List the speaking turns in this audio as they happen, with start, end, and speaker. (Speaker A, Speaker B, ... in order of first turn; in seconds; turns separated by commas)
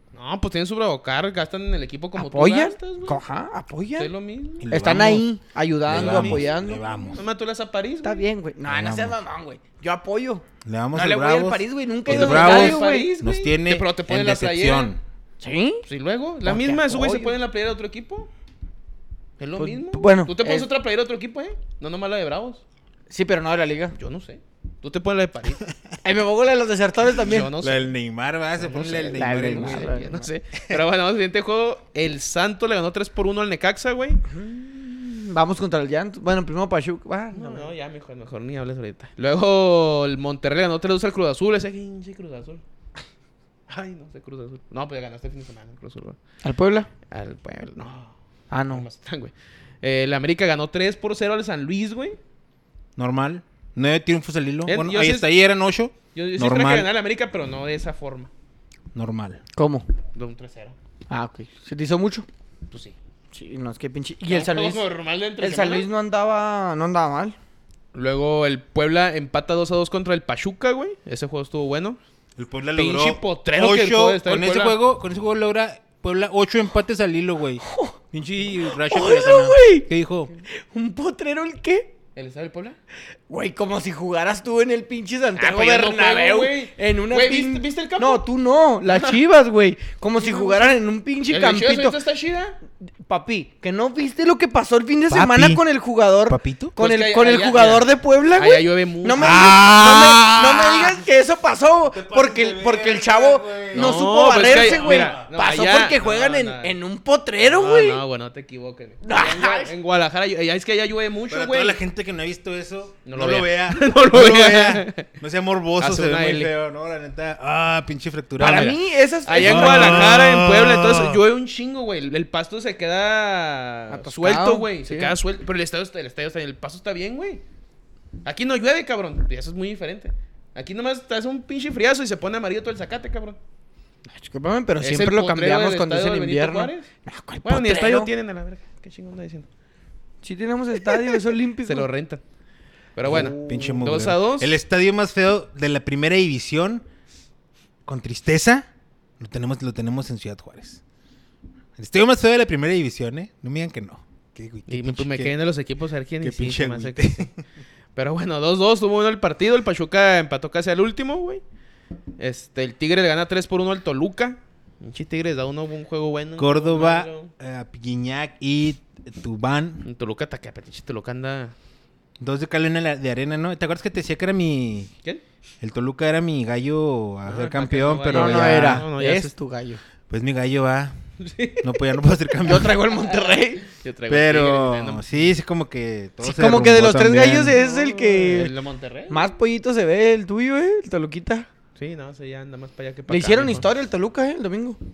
Speaker A: 0.1-3.2, Speaker B: 2.1-4.1, Speaker A: 4.0-4.7, Speaker C: 4.6-5.2, Speaker B: 4.7-6.8, Speaker C: 5.8-7.2, Speaker A: 5.9-6.4, Speaker A: 7.1-8.2, Speaker B: 8.0-13.1, Speaker C: 8.7-9.2, Speaker C: 10.6-15.0, Speaker A: 12.1-15.0, Speaker B: 15.4-15.8, Speaker A: 15.9-18.3, Speaker B: 16.4-17.3, Speaker A: 19.4-22.6, Speaker B: 19.6-20.7, Speaker B: 23.1-23.9, Speaker A: 24.0-25.6, Speaker B: 26.0-27.5, Speaker A: 27.2-27.9, Speaker C: 27.5-30.0, Speaker A: 28.6-34.2, Speaker B: 29.1-30.3, Speaker B: 34.2-37.7, Speaker A: 37.3-42.6, Speaker A: 43.7-46.2, Speaker B: 46.4-46.9, Speaker A: 47.1-48.1, Speaker B: 48.5-48.9, Speaker A: 48.7-52.2, Speaker C: 53.0-56.9, Speaker A: 54.6-55.3, Speaker A: 56.1-58.3, Speaker C: 58.9-59.4, Speaker B: 59.5-59.9, Speaker A: 60.1-60.7, Speaker B: 61.1-62.2, Speaker B: 63.3-64.8, Speaker A: 64.2-65.9, Speaker B: 65.4-67.3, Speaker A: 67.9-72.0, Speaker C: 72.4-80.3, Speaker A: 72.8-74.8, Speaker B: 77.6-77.9, Speaker B: 78.7-79.9, Speaker B: 80.5-81.9, Speaker A: 82.2-82.8, Speaker B: 83.3-92.0, Speaker A: 85.4-88.2, Speaker A: 88.9-89.2, Speaker A: 90.2-90.7, Speaker A: 91.3-92.6, Speaker B: 93.0-108.0, Speaker C: 95.1-95.6, Speaker C: 96.3-96.7, Speaker A: 96.8-99.6, Speaker C: 99.2-101.0, Speaker C: 101.9-105.2, Speaker A: 103.7-106.8, Speaker A: 107.4-111.8, Speaker B: 109.0-109.7, Speaker C: 111.3-118.8, Speaker A: 113.0-115.1, Speaker A: 115.8-116.5, Speaker B: 118.4-120.1, Speaker A: 118.4-127.4, Speaker C: 119.4-121.2, Speaker B: 123.9-125.1, Speaker A: 128.2-133.4, Speaker B: 134.1-138.1, Speaker A: 134.8-136.9, Speaker A: 137.4-139.5, Speaker B: 140.2-141.9, Speaker A: 140.9-142.2, Speaker A: 142.9-144.5, Speaker C: 143.0-146.8, Speaker B: 143.1-143.8, Speaker C: 147.8-148.7, Speaker C: 149.2-150.8, Speaker C: 151.8-155.3, Speaker A: 154.7-157.3, Speaker C: 156.2-157.3, Speaker A: 157.9-161.4, Speaker A: 162.2-167.3, Speaker C: 166.4-169.8, Speaker A: 169.8-171.5, Speaker C: 172.2-174.9, Speaker C: 175.6-178.9, Speaker A: 177.2-179.3, Speaker B: 178.1-179.8, Speaker C: 180.1-180.9, Speaker A: 181.2-185.1, Speaker C: 181.6-182.8, Speaker B: 182.4-183.7, Speaker C: 184.1-187.6, Speaker B: 186.2-188.5, Speaker A: 187.5-189.3, Speaker B: 189.1-191.5, Speaker A: 191.8-193.7, Speaker B: 193.1-194.8